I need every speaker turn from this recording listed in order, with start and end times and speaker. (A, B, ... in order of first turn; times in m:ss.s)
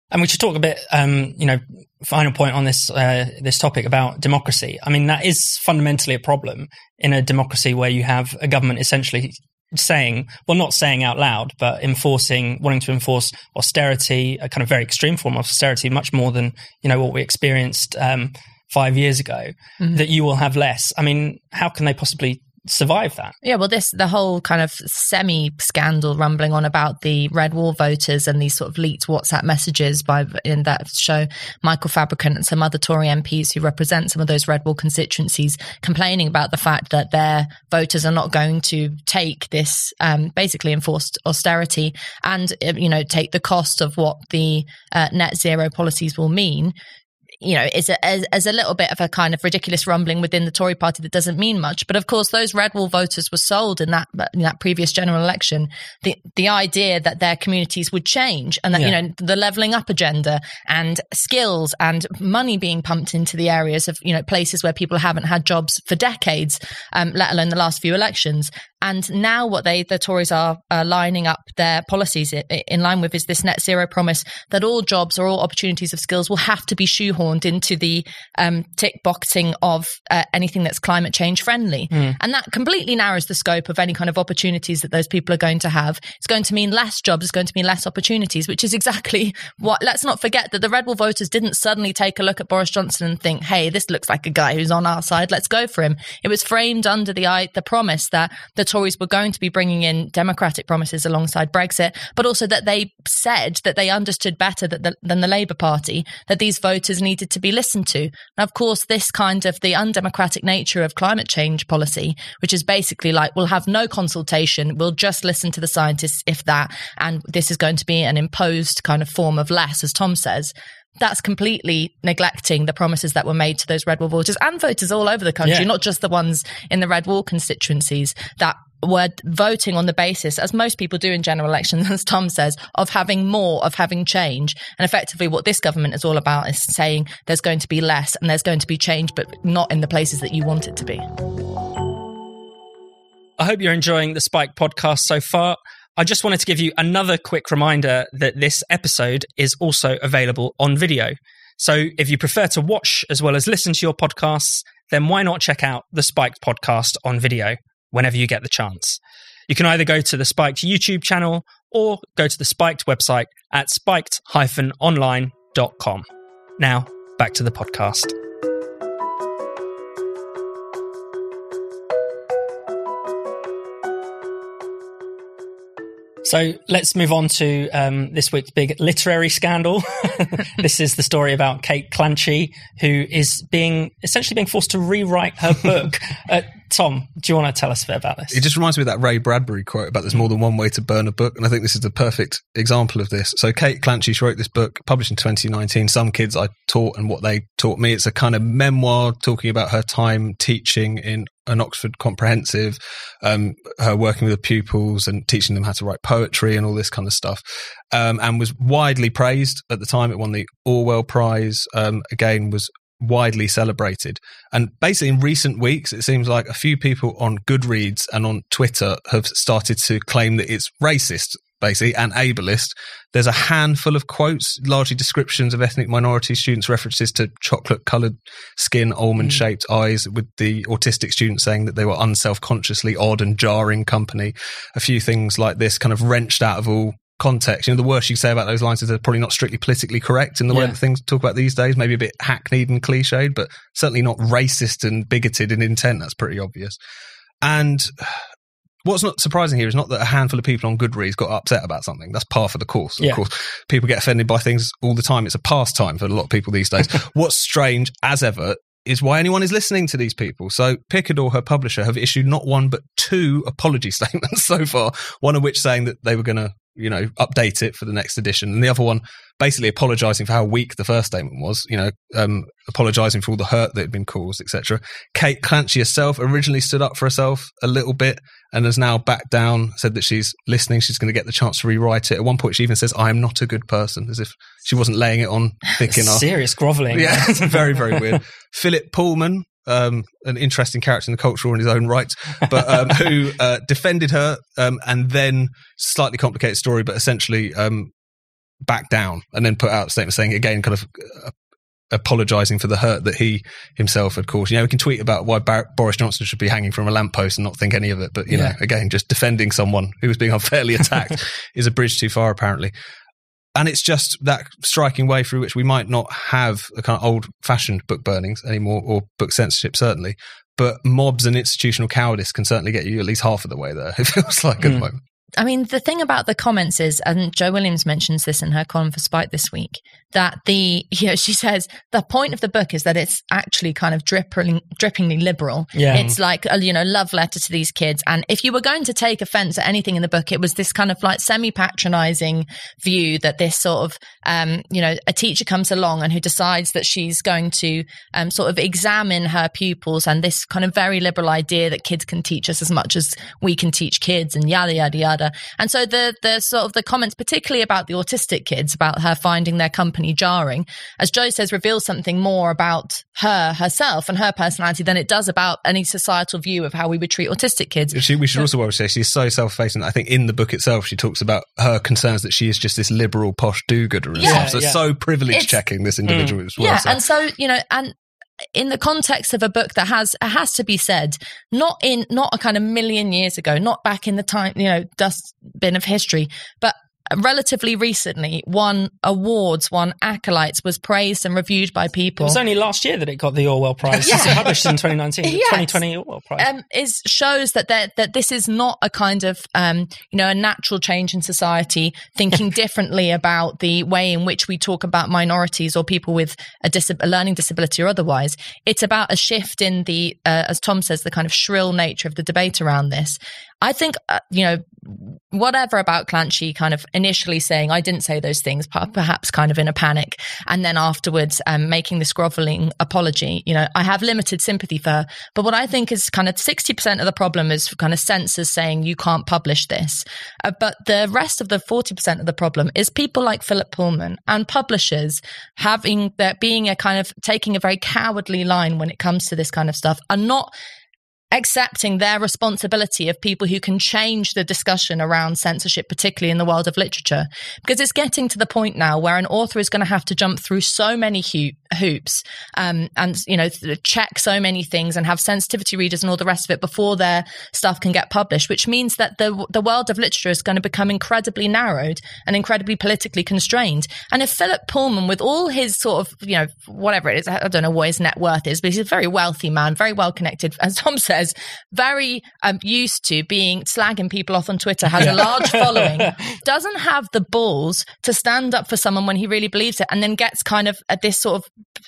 0:00.1-0:23.4 A
0:23.4-0:46.7 B
0:47.4-2:21.1 B
2:23.4-2:46.1 A
2:46.6-2:48.2 A
2:56.2-3:08.4 A
3:08.3-4:06.8 C
4:00.5-4:00.8 A
4:07.4-4:08.2 C
4:08.8-4:46.3 C
4:45.9-4:48.2 A
4:46.9-4:57.9 C
4:58.6-5:01.4 C
5:01.9-5:12.7 C
5:08.3-5:08.6 A
5:13.6-5:25.0 C
5:24.6-5:24.9 A
5:25.4-6:08.0 B
5:35.8-5:36.1 A
6:07.9-6:17.0 C
6:14.2-6:14.6 B
6:14.2-6:14.8 A
6:15.3-6:15.6 B
6:16.1-6:16.4 A
6:16.6-6:17.9 B
6:18.5-6:32.4 B
6:32.2-6:36.5 A
6:34.0-6:34.6 B
6:35.2-6:35.8 B
6:36.4-7:20.5 B
7:21.3-8:01.5 B
7:55.0-7:56.2 A